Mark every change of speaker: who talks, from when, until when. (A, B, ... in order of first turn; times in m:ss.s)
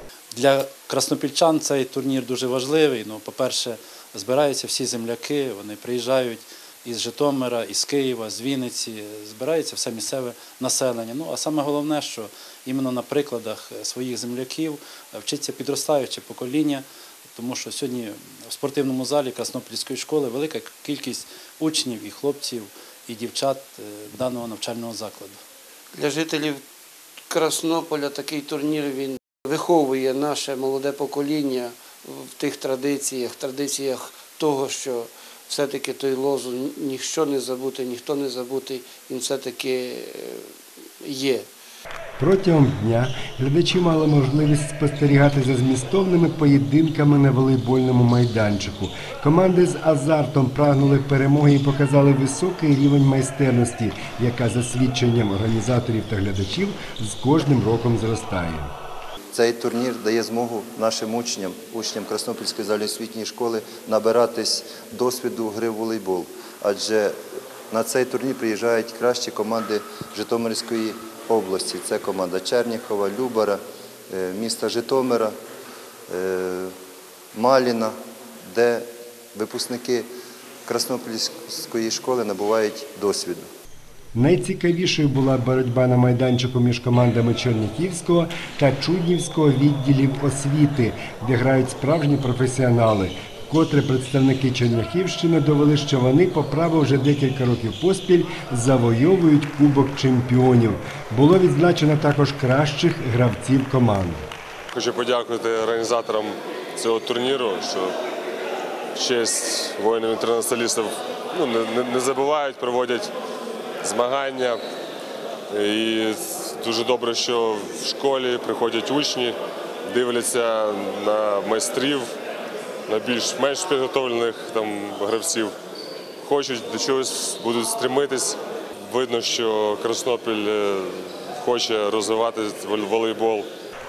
0:00.3-0:25.4 A
0:25.9-0:26.6 B
0:27.3-0:40.5 B
0:41.0-0:41.5 B
0:42.2-0:58.7 C
0:59.3-1:07.2 D
1:07.7-1:15.3 D
1:16.1-1:16.7 D
1:17.3-1:17.9 D
1:18.5-1:20.1 D
1:20.6-1:23.5 D
1:24.1-1:44.2 C
1:44.7-1:47.9 E
1:48.9-1:53.1 E
1:53.8-1:54.6 E
1:55.5-1:59.3 E
1:59.9-2:02.1 E
2:02.9-2:05.5 E
2:06.2-2:13.5 E